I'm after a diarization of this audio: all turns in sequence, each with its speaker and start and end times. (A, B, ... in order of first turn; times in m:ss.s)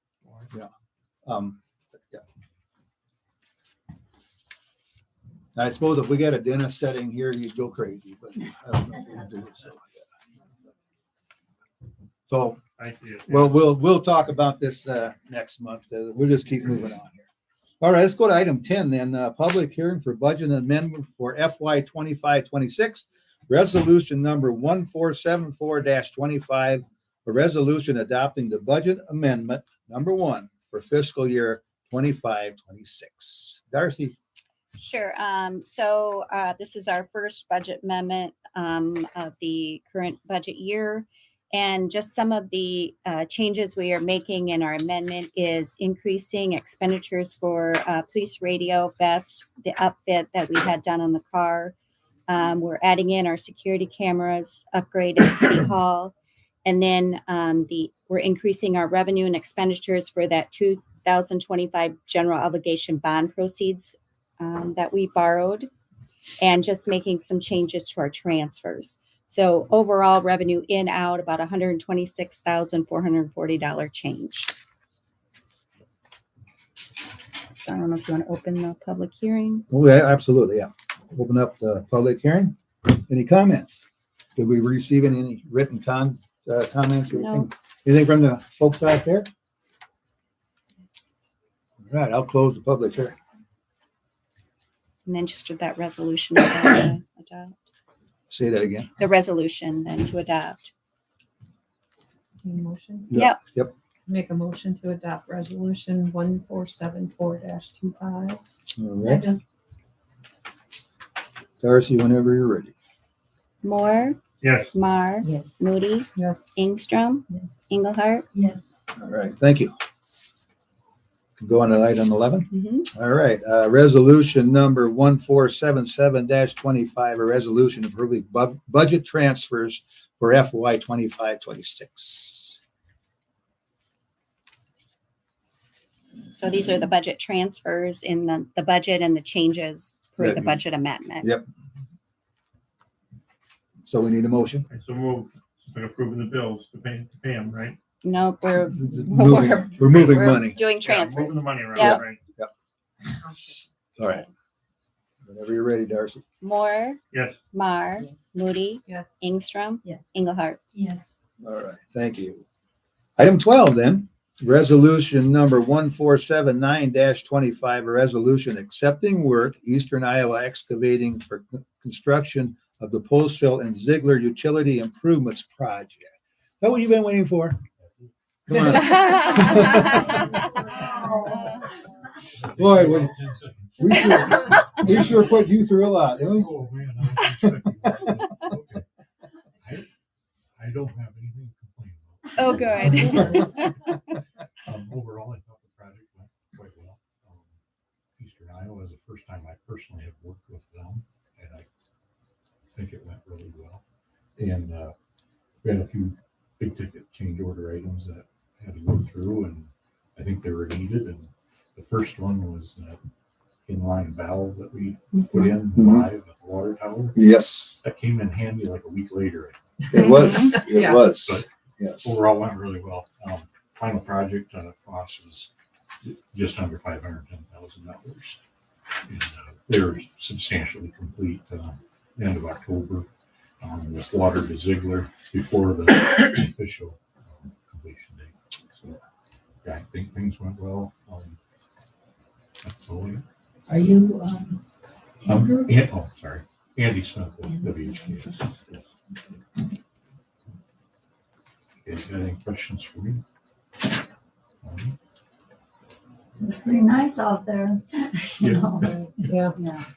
0:01.2-0:01.6 A
0:05.6-0:10.0 A
0:12.3-0:12.6 A
0:12.8-0:13.6 B
0:13.3-0:17.2 A
0:17.8-0:34.2 A
0:34.8-0:51.7 C
0:52.3-0:56.1 C
0:56.6-1:05.7 C
1:06.4-1:14.5 C
1:17.5-1:19.6 C
1:19.7-1:23.8 A
1:24.4-1:29.3 A
1:27.1-1:27.5 C
1:31.9-1:33.2 A
1:35.0-1:37.6 C
1:38.3-1:38.9 A
1:39.0-1:40.7 C
1:42.4-1:43.2 D
1:43.1-1:43.7 A
1:43.1-1:43.4 C
1:44.1-1:48.4 D
1:48.8-1:49.2 A
1:49.0-1:49.4 D
1:51.6-1:52.7 A
1:53.6-1:54.2 C
1:54.4-1:54.7 B
1:54.7-1:58.3 C
1:55.2-1:55.5 E
1:56.1-1:56.6 D
1:58.3-1:58.6 E
1:59.0-1:59.7 A
2:01.4-2:12.6 A
2:02.5-2:02.9 C
2:16.3-2:21.3 C
2:20.2-2:20.6 A
2:23.9-2:24.6 A
2:24.7-2:27.8 B
2:28.0-2:32.0 C
2:28.8-2:30.6 A
2:30.7-2:32.2 B
2:31.8-2:32.5 A
2:34.0-2:34.2 A
2:35.2-2:36.2 A
2:36.4-2:37.0 C
2:37.1-2:37.4 B
2:37.5-2:40.6 C
2:38.9-2:39.2 D
2:40.7-2:41.0 E
2:41.4-2:42.4 A
2:43.2-2:57.6 A
2:57.8-3:00.3 F
2:58.5-3:01.3 A
2:59.0-3:00.1 C
3:01.0-3:01.3 C
3:02.3-3:05.4 F
3:02.6-3:03.1 A
3:03.8-3:08.5 A
3:06.2-3:08.8 F
3:09.6-3:09.9 F
3:10.6-3:13.7 F
3:12.4-3:13.9 C
3:14.6-3:17.6 F
3:18.2-3:21.7 F
3:22.7-3:23.8 F
3:24.4-3:24.9 F
3:25.6-3:33.0 F
3:33.6-3:37.3 F
3:35.7-3:36.1 A
3:37.1-3:37.8 A
3:37.8-3:39.7 F
3:39.9-3:42.2 A
3:39.9-3:40.5 C
3:40.6-3:41.0 D
3:41.1-3:41.5 F
3:42.0-3:45.5 F
3:46.0-3:48.4 F
3:49.0-3:53.1 F
3:53.6-3:58.3 F
3:59.6-4:01.4 F
4:02.6-4:03.2 F
4:03.7-4:04.6 E
4:05.2-4:05.7 E
4:05.2-4:08.6 F
4:07.5-4:08.3 E
4:11.8-4:13.2 F
4:14.6-4:14.9 F
4:16.4-4:19.8 E
4:18.4-4:18.9 F
4:19.3-4:19.5 D